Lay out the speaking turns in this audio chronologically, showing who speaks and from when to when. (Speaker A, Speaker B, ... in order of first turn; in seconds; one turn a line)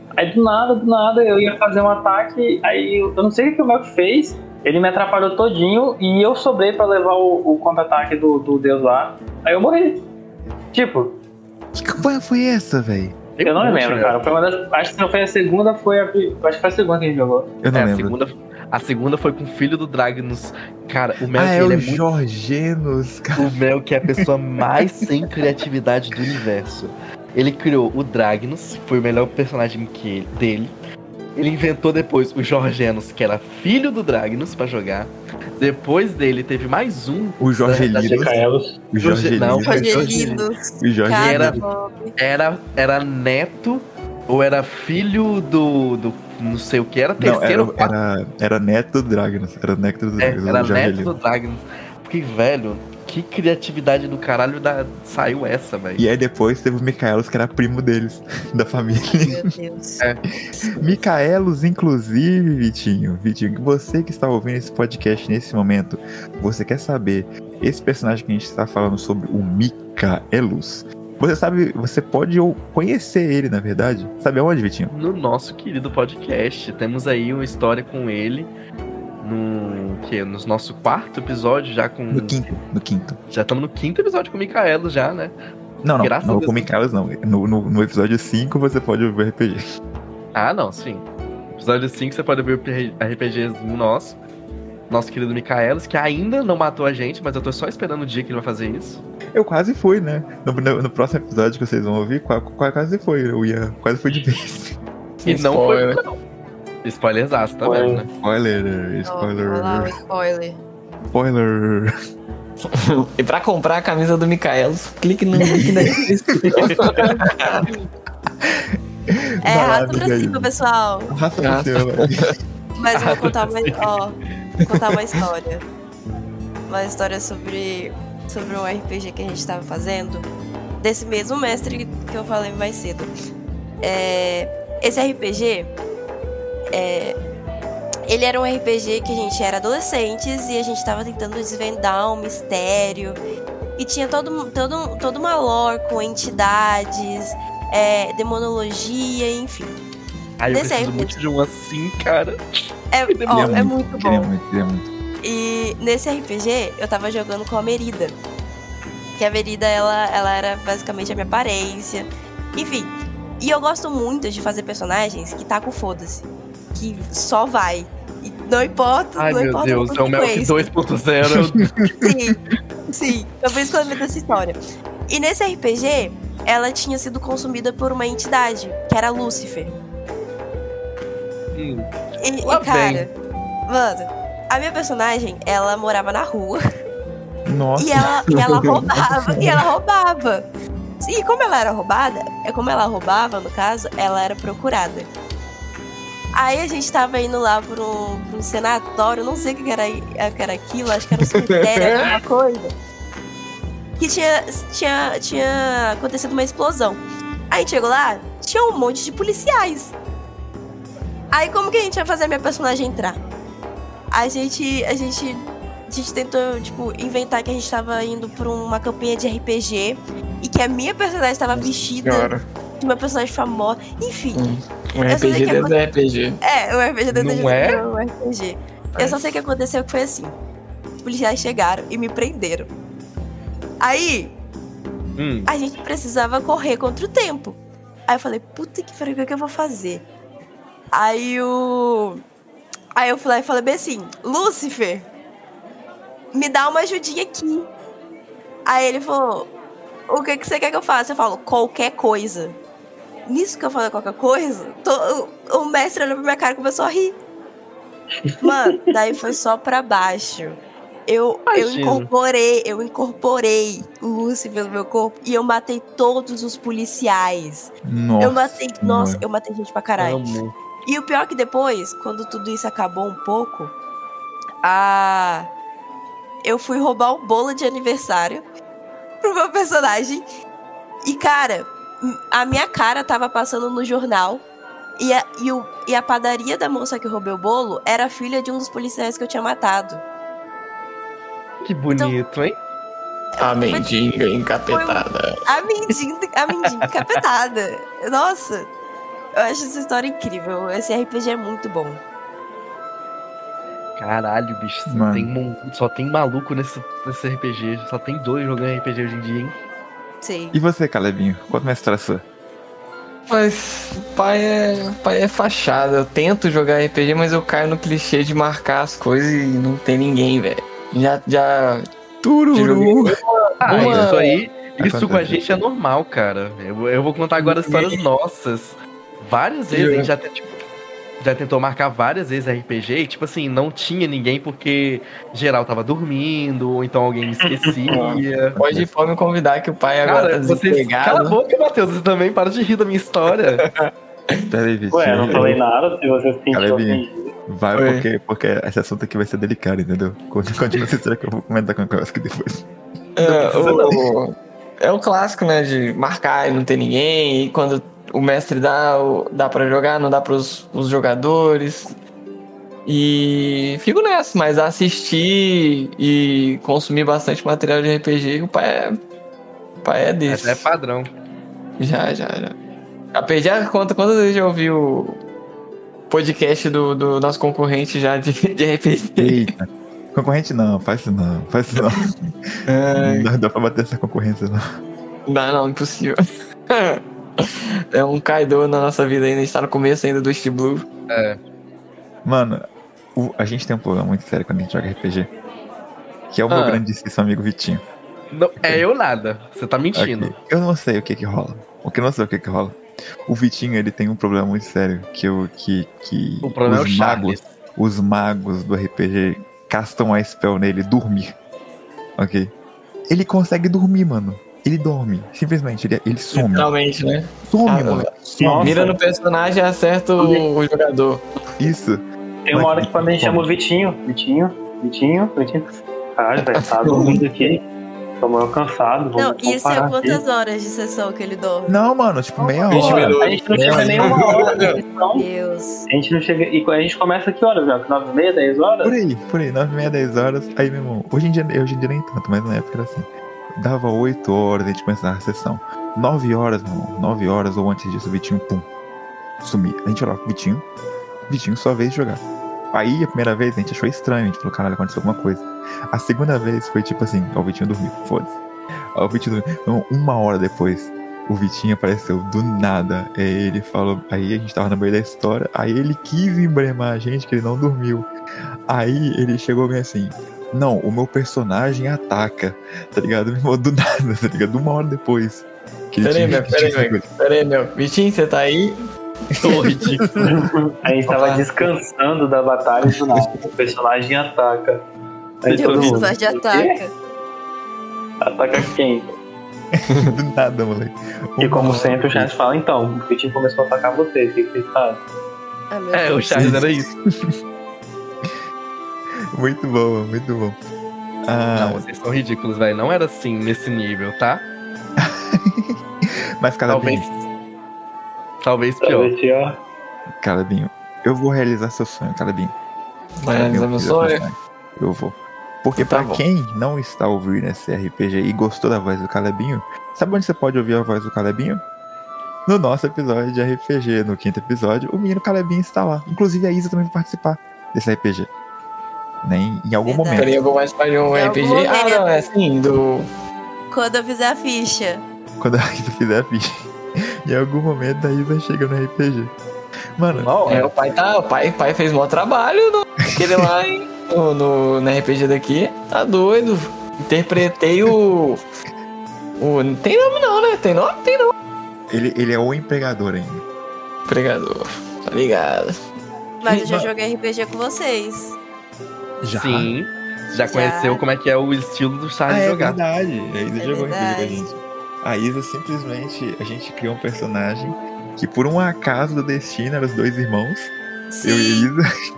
Speaker A: 0.1-10.0
Speaker A: 10.7-11.2
Speaker B: 11.7-13.1
Speaker C: 13.4-14.2
Speaker A: 13.4-17.5
Speaker B: 17.6-18.1
Speaker C: 17.7-22.0
Speaker B: 21.3-23.5
Speaker C: 23.4-30.7
Speaker C: 31.4-38.5
Speaker B: 37.4-38.4
Speaker A: 37.9-38.8
Speaker B: 38.9-40.3
Speaker C: 39.0-40.5
Speaker D: 39.6-42.1
Speaker B: 40.8-41.6
Speaker C: 41.2-41.6
Speaker C: 42.2-47.9
Speaker B: 47.2-51.1
Speaker C: 50.2-56.0
Speaker B: 56.0-59.5
Speaker D: 59.2-60.0
Speaker B: 60.8-74.9
Speaker C: 74.9-78.5
Speaker C: 79.2-82.4
Speaker B: 82.1-83.2
Speaker C: 83.3-85.3
Speaker B: 85.8-89.6
Speaker C: 86.0-86.7
Speaker C: 90.3-94.2
Speaker C: 94.9-99.0
Speaker B: 99.3-104.7
Speaker E: 105.2-106.0
Speaker C: 105.2-106.1
Speaker C: 106.8-108.1
Speaker A: 107.6-108.0
Speaker B: 108.2-109.9
Speaker D: 109.0-110.6
Speaker B: 111.1-111.9
Speaker E: 112.7-117.6
Speaker B: 115.4-115.8
Speaker D: 117.0-117.8
Speaker B: 119.1-120.5
Speaker D: 119.4-121.1
Speaker B: 121.1-122.3
Speaker E: 121.4-122.3
Speaker D: 122.8-124.1
Speaker C: 122.9-123.7
Speaker D: 124.7-125.6
Speaker D: 126.7-130.3
Speaker D: 130.8-133.1
Speaker D: 133.8-135.7
Speaker D: 136.7-137.2
Speaker D: 138.1-143.2
Speaker D: 143.8-149.7
Speaker C: 150.4-152.4
Speaker D: 150.5-151.2
Speaker D: 152.9-154.3
Speaker C: 153.1-153.7
Speaker B: 153.3-154.9
Speaker D: 155.2-158.1
Speaker D: 159.2-170.7
Speaker C: 169.2-171.7
Speaker B: 171.5-172.1
Speaker D: 172.0-172.3
Speaker D: 172.9-174.6
Speaker D: 175.1-179.7
Speaker C: 181.5-181.9
Speaker D: 182.2-183.1
Speaker C: 182.4-183.1
Speaker D: 183.7-186.6
Speaker B: 187.4-188.0
Speaker D: 187.8-190.4
Speaker E: 188.3-188.7
Speaker B: 189.0-189.5
Speaker D: 191.0-195.1
Speaker D: 196.3-202.7
Speaker E: 201.2-202.1
Speaker D: 204.0-209.9
Speaker D: 211.3-213.2
Speaker D: 214.1-224.4
Speaker E: 221.6-222.4
Speaker E: 224.3-226.4
Speaker D: 225.1-225.8
Speaker D: 226.4-230.3
Speaker C: 227.1-227.8
Speaker E: 228.9-229.2
Speaker D: 231.0-232.7
Speaker D: 233.8-234.3
Speaker C: 235.2-235.5
Speaker D: 235.5-240.1
Speaker D: 240.9-242.2
Speaker D: 242.9-245.1
Speaker D: 246.3-247.7
Speaker D: 248.7-249.5
Speaker D: 250.1-252.6
Speaker D: 253.3-257.1
Speaker D: 258.4-270.3
Speaker C: 261.5-262.1
Speaker B: 267.9-269.2
Speaker C: 270.0-270.5
Speaker D: 270.9-273.7
Speaker D: 274.6-275.5
Speaker D: 276.4-278.4
Speaker D: 279.2-280.2
Speaker D: 281.0-284.4
Speaker D: 285.0-290.0
Speaker C: 291.6-292.6
Speaker E: 293.4-295.4
Speaker D: 293.5-294.1
Speaker D: 294.7-298.7
Speaker D: 299.4-302.0
Speaker C: 304.0-309.5
Speaker B: 304.9-305.3
Speaker D: 310.2-310.6
Speaker B: 310.5-312.2
Speaker E: 313.3-321.9
Speaker B: 322.2-323.2
Speaker E: 322.5-324.4
Speaker C: 323.6-330.6
Speaker B: 323.7-324.1
Speaker B: 324.8-325.4
Speaker E: 327.4-328.0
Speaker E: 329.7-330.1
Speaker C: 331.2-338.5
Speaker A: 337.4-337.8
Speaker E: 337.9-341.4
Speaker B: 338.5-338.9
Speaker C: 340.0-343.6
Speaker E: 343.6-344.4
Speaker B: 344.5-345.6
Speaker A: 344.9-347.3
Speaker B: 346.5-352.6
Speaker E: 347.7-348.0
Speaker E: 353.2-361.9
Speaker C: 353.2-354.0
Speaker E: 362.9-369.0
Speaker E: 369.8-370.7
Speaker C: 370.3-371.1
Speaker E: 371.8-372.5
Speaker E: 373.1-375.2
Speaker E: 376.1-379.5
Speaker B: 379.2-382.3
Speaker E: 381.8-382.1
Speaker E: 382.7-383.3
Speaker B: 382.9-384.6
Speaker E: 385.3-386.2
Speaker E: 386.7-390.9
Speaker C: 391.1-391.4
Speaker B: 392.2-392.6
Speaker B: 393.1-395.3
Speaker B: 396.3-397.8
Speaker C: 396.5-396.8
Speaker C: 398.3-400.3
Speaker B: 399.9-411.3
Speaker C: 406.4-407.4
Speaker B: 412.2-412.5
Speaker B: 413.1-416.7
Speaker E: 416.3-421.2
Speaker B: 417.5-418.9
Speaker A: 418.4-418.9
Speaker A: 420.2-420.4
Speaker B: 421.6-423.5
Speaker A: 422.4-427.6
Speaker E: 426.4-427.2
Speaker A: 428.2-430.2
Speaker D: 429.2-431.8
Speaker B: 431.7-434.2
Speaker D: 432.4-433.1
Speaker E: 432.7-434.8
Speaker A: 432.8-435.2
Speaker D: 434.0-435.9
Speaker A: 435.9-438.9
Speaker B: 438.8-448.7
Speaker B: 449.4-450.6
Speaker B: 451.3-458.3
Speaker B: 458.9-468.1
Speaker B: 468.7-477.0
Speaker E: 476.0-478.7
Speaker C: 479.4-480.2
Speaker A: 480.3-484.8
Speaker E: 481.1-481.5
Speaker A: 485.4-486.8
Speaker C: 485.4-486.0
Speaker D: 485.5-486.9
Speaker A: 488.2-489.1
Speaker E: 489.9-490.1
Speaker B: 489.9-492.3
Speaker A: 491.4-495.0
Speaker D: 495.7-496.5
Speaker C: 495.9-496.9
Speaker B: 496.4-497.3
Speaker B: 499.3-500.6
Speaker B: 501.2-501.9
Speaker C: 501.5-504.4
Speaker B: 505.0-505.8
Speaker B: 506.4-507.1
Speaker C: 506.7-507.0
Speaker C: 508.4-509.1
Speaker A: 508.8-509.6
Speaker B: 510.2-512.5
Speaker E: 513.2-514.2
Speaker B: 513.3-521.6
Speaker E: 515.8-516.2
Speaker B: 522.5-528.3
Speaker B: 529.2-530.3
Speaker D: 529.8-530.5
Speaker E: 530.1-533.1
Speaker D: 531.1-532.3
Speaker D: 533.7-535.0
Speaker B: 535.4-536.5
Speaker B: 537.2-539.3
Speaker B: 540.0-540.3
Speaker C: 540.1-540.7
Speaker E: 540.5-548.4
Speaker B: 543.1-543.5
Speaker E: 549.4-551.3
Speaker B: 551.9-553.4
Speaker E: 554.1-555.8
Speaker D: 556.4-558.4
Speaker B: 556.5-556.9
Speaker B: 559.2-559.7
Speaker C: 559.3-562.8
Speaker D: 560.4-561.0
Speaker B: 562.3-564.5
Speaker D: 563.6-564.5
Speaker B: 565.0-570.7
Speaker D: 571.1-571.7
Speaker B: 571.2-571.8